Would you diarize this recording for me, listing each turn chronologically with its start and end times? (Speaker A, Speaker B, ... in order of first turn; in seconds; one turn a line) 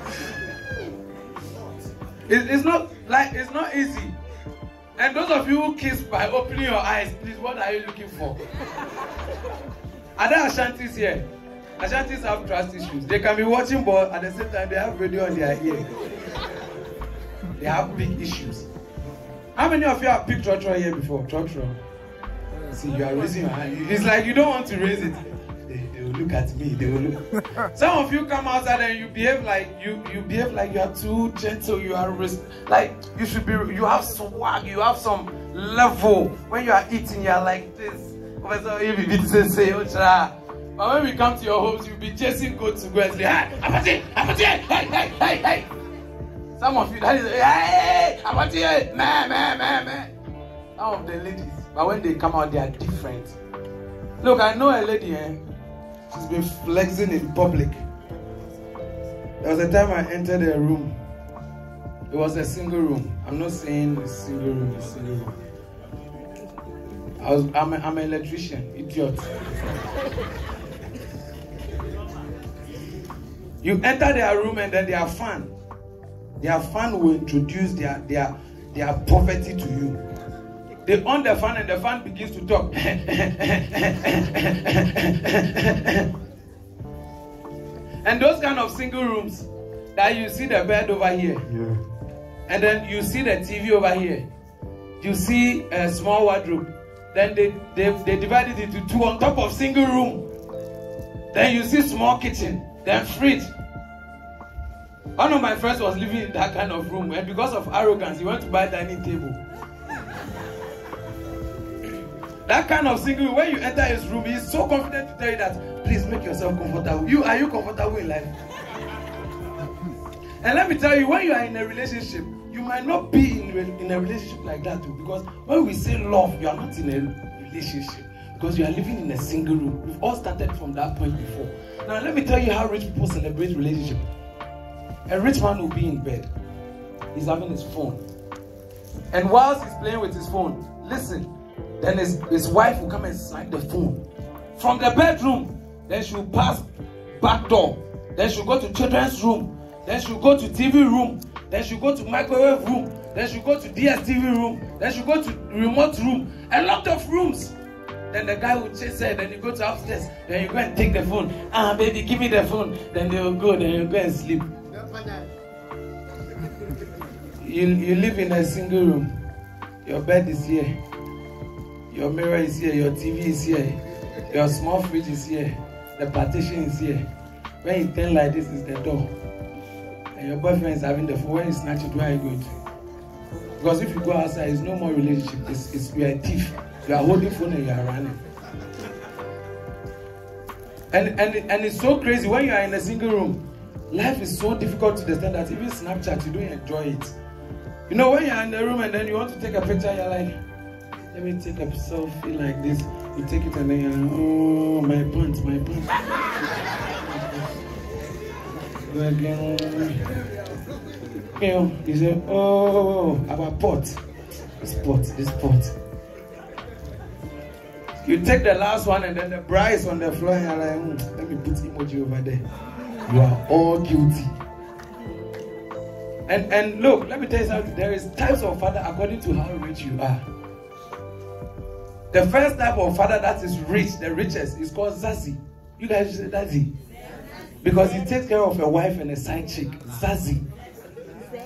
Speaker A: 2.3-4.1
Speaker A: 5.0-8.4
Speaker A: 10.2-11.2
Speaker A: 11.8-15.9
Speaker A: 17.6-18.7
Speaker A: 19.6-21.8
Speaker A: 22.7-45.7
Speaker A: 46.6-50.1
Speaker A: 50.8-53.4
Speaker A: 54.2-55.4
Speaker A: 56.1-57.8
Speaker A: 59.4-61.0
Speaker A: 62.1-65.3
Speaker A: 67.2-69.3
Speaker A: 73.6-75.5
Speaker A: 76.4-80.0
Speaker A: 80.8-86.1
Speaker A: 88.0-91.4
Speaker A: 92.5-94.2
Speaker A: 95.0-100.2
Speaker A: 101.3-103.5
Speaker A: 105.2-109.4
Speaker A: 112.4-118.3
Speaker A: 120.4-134.0
Speaker A: 135.1-136.3
Speaker A: 137.1-138.0
Speaker A: 139.1-144.0
Speaker A: 144.6-157.5
Speaker A: 158.1-164.5
Speaker A: 167.4-169.2
Speaker A: 169.8-170.7
Speaker A: 171.9-173.8
Speaker A: 174.3-177.0
Speaker A: 177.6-179.1
Speaker A: 180.1-182.5
Speaker A: 183.6-188.2
Speaker A: 190.9-197.2
Speaker A: 197.9-200.3
Speaker A: 201.1-205.9
Speaker A: 206.9-207.4
Speaker A: 208.8-210.0
Speaker A: 211.4-214.0
Speaker A: 214.6-215.7
Speaker A: 218.0-222.4
Speaker A: 223.1-224.3
Speaker A: 226.3-230.2
Speaker A: 232.1-236.7
Speaker A: 237.6-240.4